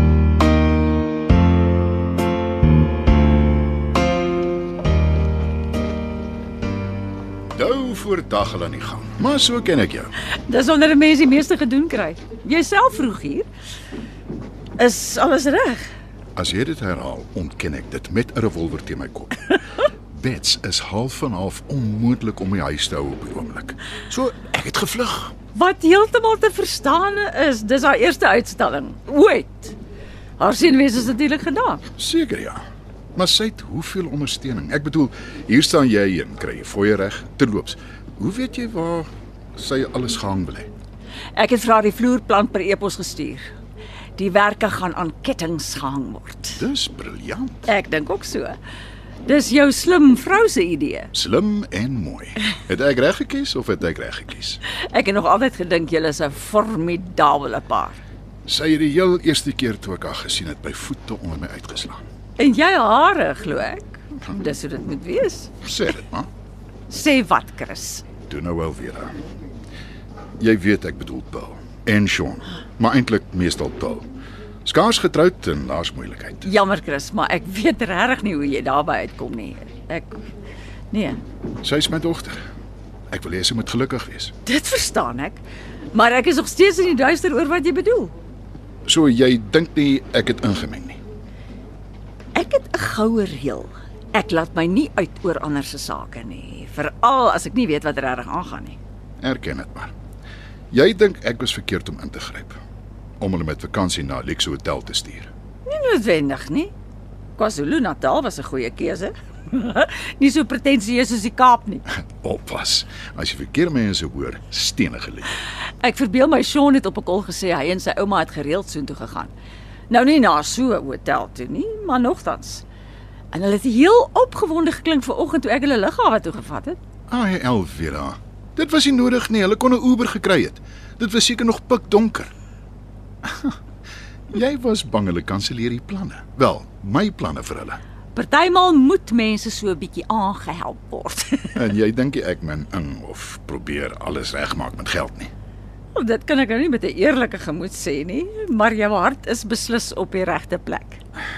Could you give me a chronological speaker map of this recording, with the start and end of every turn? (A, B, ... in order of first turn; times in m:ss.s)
0:07.5-0:10.1 A
0:10.5-0:13.5 B
0:14.8-0:15.8 B
0:16.4-0:19.5 A
0:20.1-0:25.3 A
0:25.5-0:29.8 B
0:30.4-0:31.8 B
0:32.0-0:32.6 A
0:33.1-0:40.7 A
0:41.3-0:43.5 B
0:44.2-0:46.6 B
0:46.6-0:47.7 A
0:47.6-0:48.6 B
0:49.2-0:51.1 B
0:51.1-0:54.6 A
0:54.9-0:58.0 B
0:58.4-1:02.0 A
1:02.4-1:05.5 B
1:05.6-1:06.3 A
1:06.9-1:08.0 B
1:08.3-1:09.2 A
1:10.4-1:14.1 A
1:14.6-1:16.5 A
1:16.4-1:20.2 B
1:20.9-1:21.2 B
1:21.6-1:22.4 A
1:23.1-1:24.3 A
1:24.4-1:25.4 B
1:25.9-1:28.1 B
1:28.8-1:31.0 A
1:32.3-1:38.8 B
1:39.2-1:39.9 A
1:40.7-1:42.6 A
1:43.2-1:45.3 A
1:45.7-1:46.7 B
1:47.4-1:51.8 B
1:52.2-1:55.3 A
1:55.8-1:59.3 B
1:59.9-2:02.6 B
2:03.3-2:06.8 B
2:07.1-2:12.3 A
2:13.2-2:13.6 A
2:14.3-2:17.8 A
2:18.1-2:21.6 B
2:21.5-2:25.3 A
2:25.9-2:31.0 B